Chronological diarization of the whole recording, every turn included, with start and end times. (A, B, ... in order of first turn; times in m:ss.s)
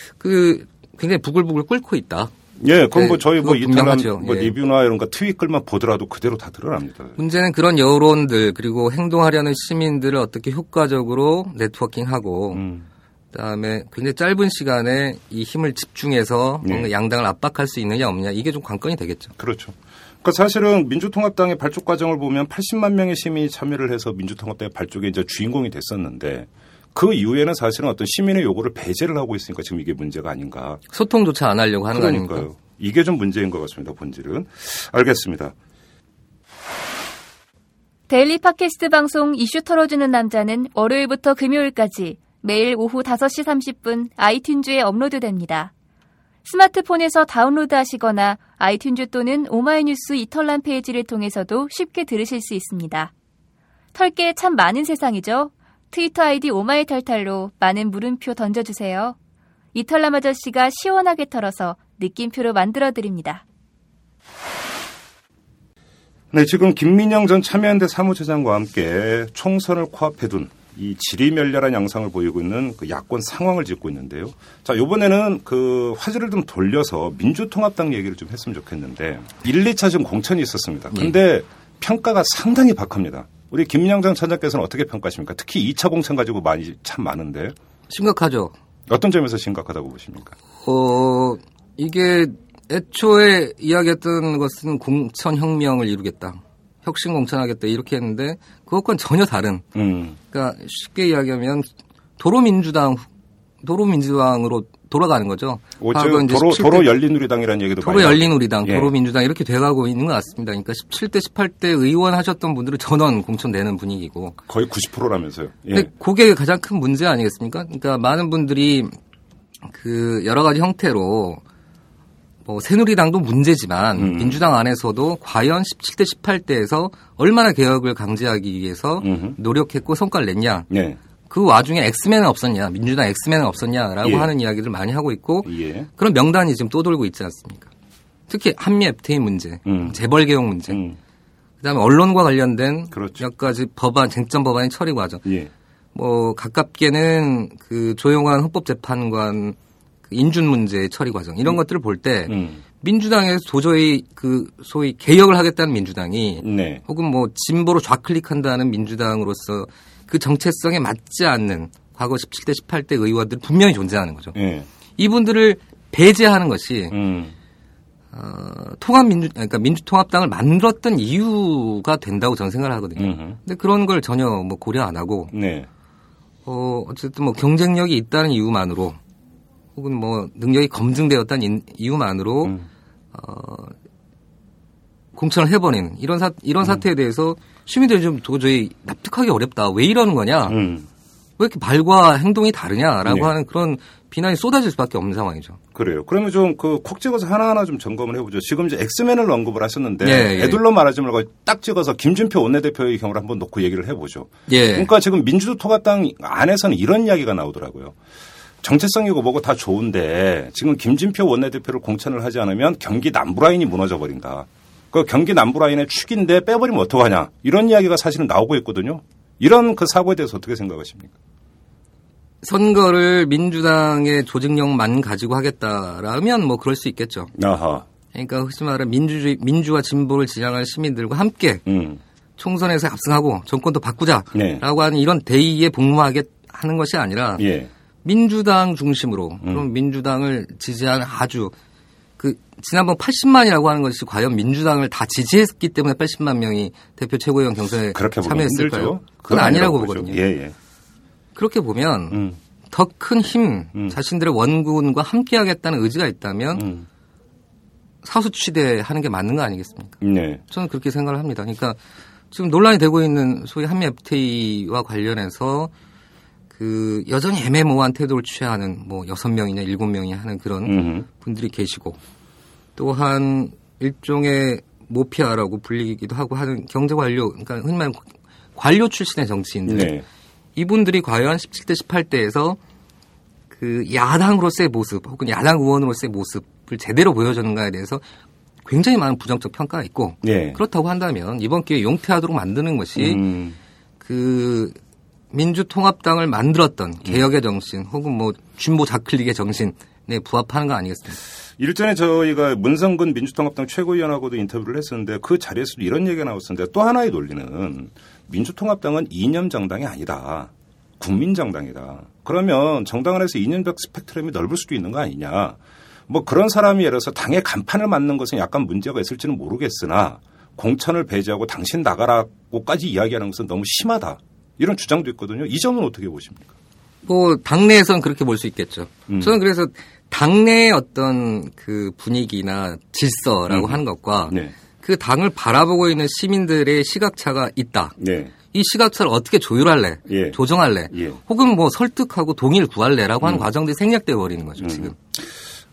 0:00.2-0:02.3 A
0:02.6-0:07.2 B
0:02.9-0:04.5 A
0:07.2-0:12.6 A
0:12.5-0:12.9 B
0:13.3-0:19.3 A
0:16.6-0:16.9 B
0:19.4-0:30.8 B
0:30.9-0:32.4 A
0:31.9-0:35.5 B
0:38.1-0:45.7 C
0:46.4-0:53.1 C
0:53.9-0:59.2 C
0:59.7-1:03.4 C
1:06.3-1:27.5 B
1:27.9-1:28.5 A
1:28.9-1:30.3 B
1:30.6-1:39.6 A
1:39.7-1:40.2 B
1:40.3-1:43.0 A
1:43.6-1:47.0 A
1:45.8-1:48.9 B
1:47.8-1:54.4 A
1:54.5-1:55.9 B
1:55.7-1:58.9 A
1:59.7-2:01.4 A
2:02.4-2:10.7 A
2:04.0-2:04.4 B
2:09.0-2:09.4 B
2:10.7-2:11.0 B
2:11.3-2:17.7 A
2:14.0-2:14.3 B
2:15.4-2:15.9 B
2:18.3-2:20.8 A
2:19.6-2:20.0 B
2:20.7-2:21.0 B
2:21.6-2:25.2 A
2:22.9-2:23.2 B
2:25.2-2:25.5 B
2:25.9-2:29.6 A
2:30.1-2:44.3 A
2:32.2-2:32.6 B
2:36.4-2:36.8 B
2:44.3-2:44.7 B
2:45.0-2:47.0 A
2:46.9-2:47.3 B
2:48.1-2:55.3 A
2:53.0-2:53.4 B
2:55.3-2:55.7 B
2:56.4-2:59.0 A
2:59.7-3:02.6 A
3:03.1-3:03.7 A
3:05.1-3:10.6 A
3:10.5-3:10.9 B
3:11.4-3:15.6 A
3:13.0-3:13.3 B
3:15.7-3:28.0 B
3:20.0-3:20.6 A
3:24.5-3:24.9 A
3:28.6-3:41.1 B
3:42.4-3:47.3 A
3:47.3-3:47.8 B
3:48.1-3:51.6 A
3:51.6-3:52.0 B
3:52.4-3:57.4 A
3:54.3-3:54.6 B
3:57.4-3:57.7 B
3:58.0-4:01.5 A
4:02.2-4:10.2 A
4:07.9-4:10.5 B
4:11.4-4:16.6 A
4:12.1-4:12.4 B
4:16.5-4:16.9 B
4:18.0-4:21.8 A
4:20.0-4:20.4 B
4:22.3-4:25.7 A
4:26.5-4:32.0 A
4:30.6-4:31.0 B
4:32.8-4:40.0 A
4:39.6-4:40.0 B
4:40.6-4:42.6 A
4:43.5-4:48.0 A
4:48.6-4:53.2 A
4:50.2-4:50.6 B
4:53.0-4:53.6 B
4:54.0-4:54.8 A
4:55.3-5:01.2 A
5:01.6-5:26.5 B
5:27.0-5:38.0 A
5:29.1-5:29.4 B
5:33.5-5:34.5 B
5:38.0-5:38.3 B
5:38.5-5:44.9 A
5:40.0-5:40.4 B
5:40.9-5:41.2 B
5:44.6-5:45.4 B